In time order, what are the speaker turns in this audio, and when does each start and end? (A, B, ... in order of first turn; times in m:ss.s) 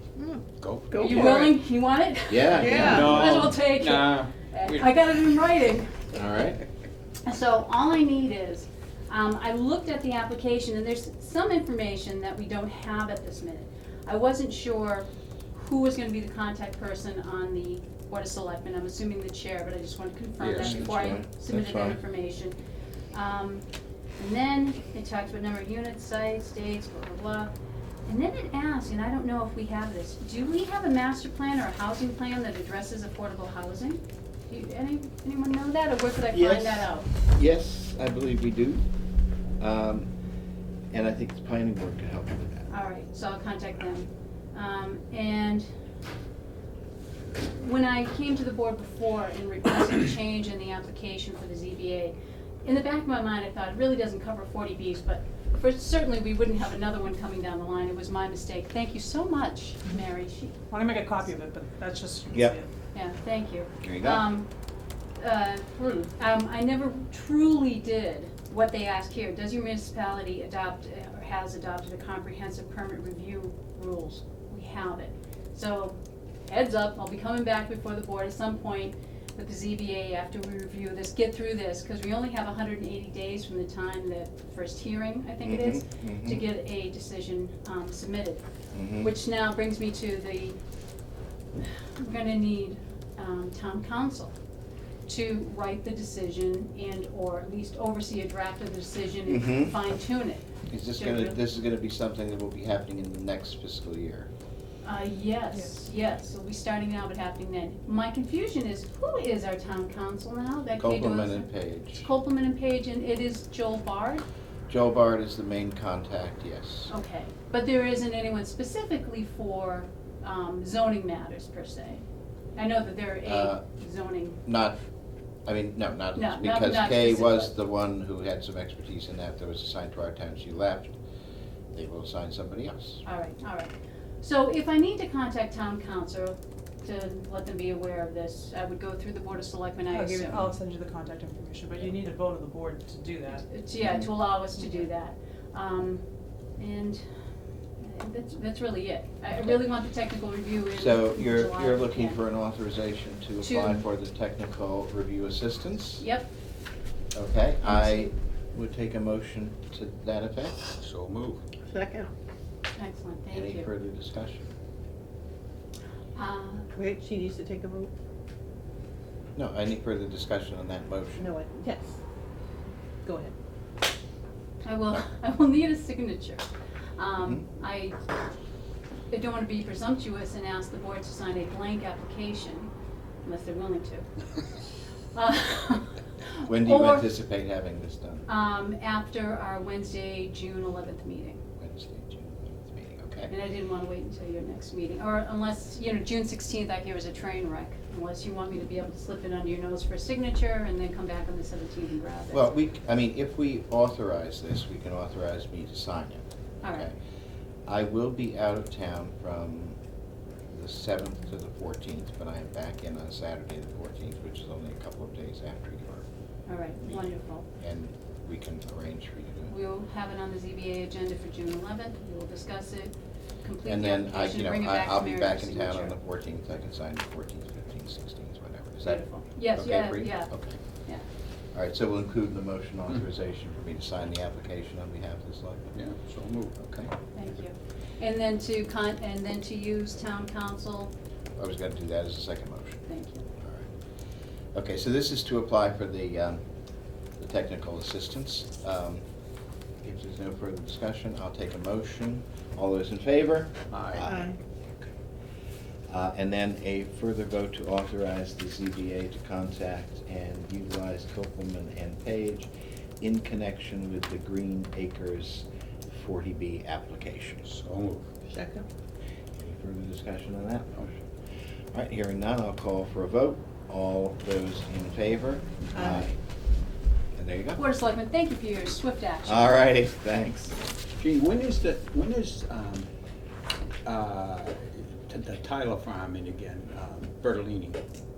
0:00.2-0:01.5 A
0:00.6-0:01.5 B
0:01.0-0:06.1 C
0:02.3-0:03.3 D
0:02.5-0:03.2 A
0:02.6-0:05.0 B
0:06.1-0:06.6 D
0:07.2-0:22.6 C
0:20.4-0:21.1 B
0:20.6-0:22.0 D
0:23.1-0:23.7 C
0:24.2-0:27.5 C
0:28.1-0:37.1 C
0:36.3-0:38.8 D
0:39.6-0:40.1 D
0:40.9-0:42.7 D
0:42.7-0:45.7 C
0:47.4-1:00.6 C
1:00.7-1:02.7 E
1:02.9-1:04.5 C
1:03.8-1:04.3 D
1:05.2-1:28.4 C
1:25.4-1:26.5 D
1:28.7-1:29.1 D
1:29.0-1:30.6 C
1:32.0-1:34.3 C
1:35.1-1:41.4 C
1:39.3-1:39.8 D
1:40.7-1:44.3 D
1:44.8-1:54.2 C
1:50.8-1:52.1 D
1:54.7-1:56.9 D
1:56.9-2:02.0 C
2:02.6-2:04.4 C
2:03.2-2:03.6 D
2:04.4-2:04.8 D
2:05.5-2:11.0 D
2:06.2-2:07.5 C
2:11.7-2:13.0 D
2:13.0-2:20.5 C
2:19.9-2:23.5 E
2:23.5-2:26.0 C
2:26.6-2:27.0 C
2:27.8-2:32.2 C
2:30.7-2:36.0 D
2:33.4-2:33.8 C
2:36.0-2:36.3 C
2:37.1-2:40.6 D
2:37.6-2:38.1 C
2:40.8-2:41.4 B
2:41.7-2:42.1 A
2:42.8-2:43.7 C
2:43.3-2:44.5 D
2:46.2-2:46.7 C
2:46.8-2:47.9 A
2:49.4-2:51.3 D
2:51.2-2:52.0 A
2:53.0-2:53.3 A
2:54.6-2:56.4 C
2:57.0-2:58.0 C
2:57.2-2:57.4 D
2:59.1-3:02.7 C
3:03.2-3:04.1 C
3:05.1-3:07.1 C
3:06.4-3:08.3 D
3:08.3-3:11.4 C
3:11.6-3:13.3 D
3:13.3-3:22.5 C
3:22.3-3:27.0 D
3:26.6-3:26.9 C
3:27.7-3:29.8 D
3:30.5-3:36.1 D
3:36.5-3:37.5 C
3:37.6-3:39.5 D
3:39.5-3:46.0 C
3:43.6-3:50.6 D
3:48.9-3:50.3 C
3:51.5-3:55.7 D
3:55.8-3:56.6 B
3:56.6-3:56.9 D
3:57.2-4:00.9 C
4:01.4-4:02.9 D
4:02.9-4:03.2 C
4:03.4-4:03.7 D
4:04.5-4:06.4 D
4:07.2-4:09.0 D
4:09.8-4:14.3 D
4:13.7-4:14.1 B
4:14.0-4:14.4 A
4:15.9-4:27.5 D
4:27.5-4:28.1 B
4:28.3-4:28.7 A
4:29.4-4:31.0 D
4:31.7-4:36.2 D
4:35.7-4:36.1 A
4:37.2-4:37.6 D
4:37.6-4:39.6 C
4:39.3-4:40.6 D
4:41.0-4:42.9 B
4:43.8-4:47.8 B